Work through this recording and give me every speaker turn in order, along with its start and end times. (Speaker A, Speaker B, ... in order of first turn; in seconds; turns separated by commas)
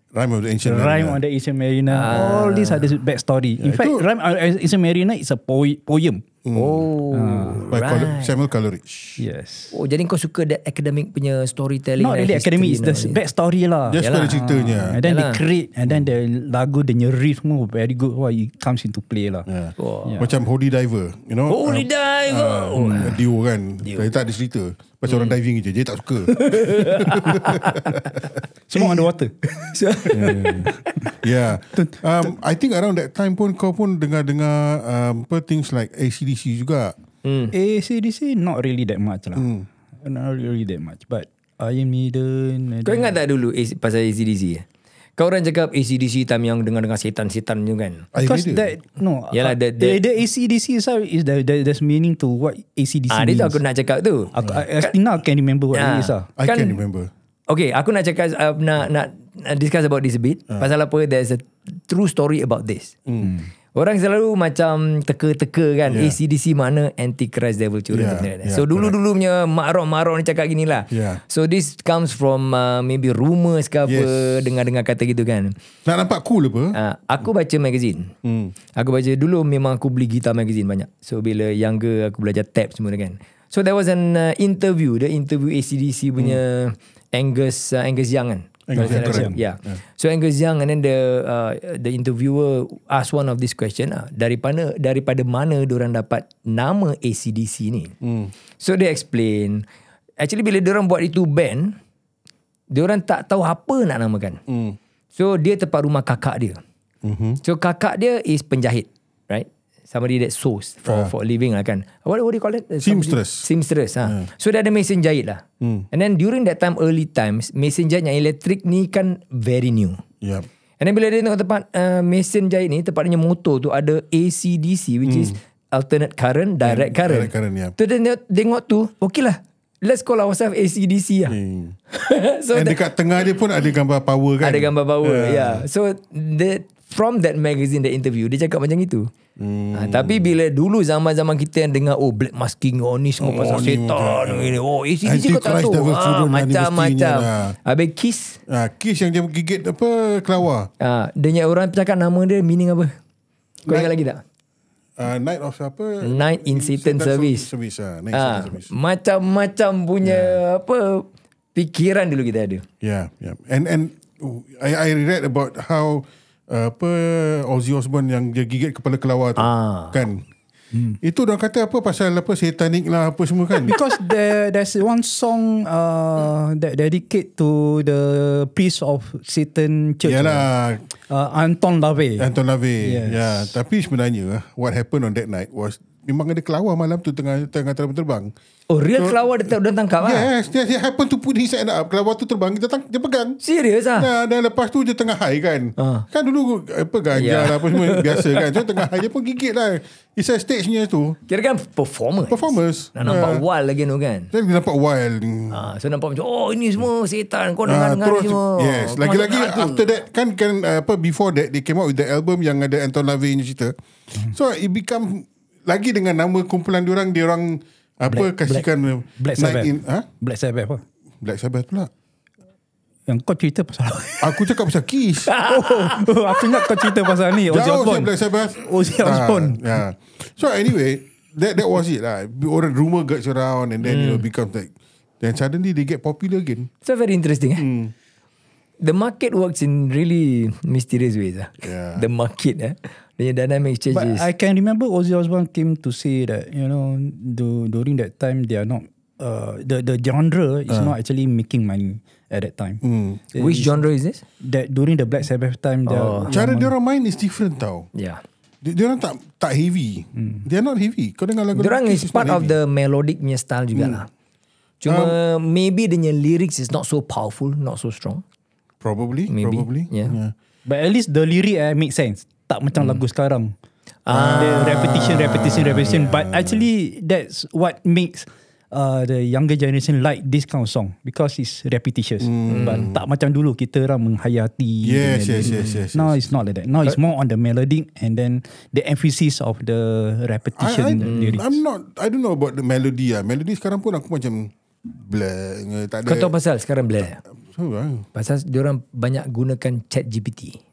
Speaker A: 0.1-1.2, Speaker B: 0.6-6.2, Speaker C: 1.9-2.9, Speaker A: 3.6-4.0, Speaker A: 6.4-6.9, Speaker C: 6.5-8.3, Speaker B: 7.1-7.7, Speaker A: 7.7-9.2, Speaker B: 9.2-9.7, Speaker C: 9.7-13.2, Speaker B: 12.0-19.5, Speaker A: 13.9-15.0, Speaker C: 14.0-14.4, Speaker C: 15.0-15.4, Speaker A: 19.5-28.4, Speaker C: 19.8-20.3, Speaker B: 20.0-20.3, Speaker C: 21.5-23.2, Speaker B: 22.8-23.1, Speaker C: 23.8-24.1, Speaker C: 25.1-25.3, Speaker C: 26.3-28.0, Speaker B: 28.7-29.4, Speaker C: 29.5-30.7, Speaker A: 30.1-36.9, Speaker B: 30.1-31.1, Speaker B: 31.7-32.0, Speaker C: 37.2-37.5, Speaker B: 37.5-39.5, Speaker A: 39.3-39.7, Speaker B: 40.0-43.1, Speaker C: 42.8-44.6, Speaker C: 45.2-48.1, Speaker A: 48.1-48.7, Speaker B: 48.2-53.6, Speaker C: 49.3-50.0, Speaker C: 53.1-54.9, Speaker B: 54.4-56.3, Speaker C: 55.7-56.8, Speaker A: 56.4-57.1, Speaker C: 57.5-62.9, Speaker A: 63.1-63.3, Speaker B: 63.2-63.5, Speaker C: 63.7-75.5, Speaker A: 65.9-66.2, Speaker A: 67.9-69.0, Speaker A: 70.9-71.2, Speaker A: 73.8-74.5, Speaker A: 75.8-76.8, Speaker C: 76.7-78.1, Speaker A: 78.2-78.5, Speaker C: 78.7-97.9, Speaker A: 88.7-89.8, Speaker B: 88.7-89.4, Speaker A: 98.0-98.3, Speaker C: 98.6-99.6, Speaker C: 100.2-101.8, Speaker C: 102.7-104.4, Speaker A: 104.5-104.8, Speaker C: 105.2-106.6, Speaker A: 107.0-107.4, Speaker C: 107.4-120.0, Speaker A: 110.8-111.1, Speaker A: 112.8-113.5, Speaker A: 115.6-115.9, Speaker A: 120.2-120.5, Speaker C: 120.8-131.4, Speaker A: 125.0-125.3, Speaker A: 126.6-127.7, Speaker A: 131.3-131.8, Speaker C: 131.9-132.8, Speaker A: 132.5-135.6, Speaker C: 134.4-139.1, Speaker A: 139.4-140.3, Speaker C: 139.7-148.4, Speaker A: 143.2-147.6, Speaker A: 148.5-150.7, Speaker C: 150.8-152.9, Speaker A: 153.7-153.9, Speaker C: 153.7-154.2, Speaker A: 155.0-158.7, Speaker C: 156.0-157.5, Speaker C: 158.1-162.6, Speaker A: 160.0-160.4, Speaker A: 162.8-170.2, Speaker C: 169.4-170.0, Speaker A: 171.0-173.8, Speaker B: 173.6-180.5, Speaker A: 180.1-180.8, Speaker B: 181.1-182.3, Speaker A: 182.2-188.3, Speaker B: 182.8-183.5, Speaker C: 188.7-190.3, Speaker A: 189.0-189.2, Speaker A: 190.0-193.4, Speaker C: 193.4-194.1, Speaker A: 193.9-201.2, Speaker C: 195.8-196.1, Speaker C: 197.1-198.8, Speaker C: 201.3-204.3, Speaker A: 202.3-203.4, Speaker A: 204.3-205.7, Speaker C: 205.5-209.8, Speaker A: 207.7-213.7, Speaker A: 214.3-220.1, Speaker B: 218.1-220.8, Speaker A: 221.2-221.9, Speaker B: 223.1-224.5, Speaker A: 224.2-225.3, Speaker C: 225.3-227.1, Speaker B: 225.4-229.8, Speaker A: 227.5-236.7, Speaker C: 233.8-234.2, Speaker C: 236.8-237.7, Speaker A: 237.6-237.9, Speaker C: 238.8-244.3, Speaker A: 241.6-242.1, Speaker B: 243.9-252.8, Speaker A: 252.8-253.2, Speaker B: 253.3-253.8, Speaker C: 253.4-254.2, Speaker B: 254.4-256.7, Speaker C: 255.9-256.3, Speaker A: 256.3-257.9, Speaker C: 257.9-258.2, Speaker A: 258.6-262.6, Speaker B: 260.1-260.4, Speaker C: 261.5-264.1, Speaker A: 263.7-264.0, Speaker C: 264.8-268.2, Speaker A: 264.9-265.2, Speaker A: 268.8-270.3, Speaker C: 269.3-270.2, Speaker B: 270.6-273.5, Speaker C: 272.8-273.0, Speaker C: 274.1-276.0, Speaker A: 274.1-276.6, Speaker B: 274.3-291.6, Speaker A: 282.2-283.0, Speaker C: 282.5-282.8, Speaker A: 284.8-286.2, Speaker A: 290.6-296.3, Speaker C: 291.0-291.4, Speaker C: 296.1-297.2, Speaker A: 297.5-298.1, Speaker C: 298.1-300.6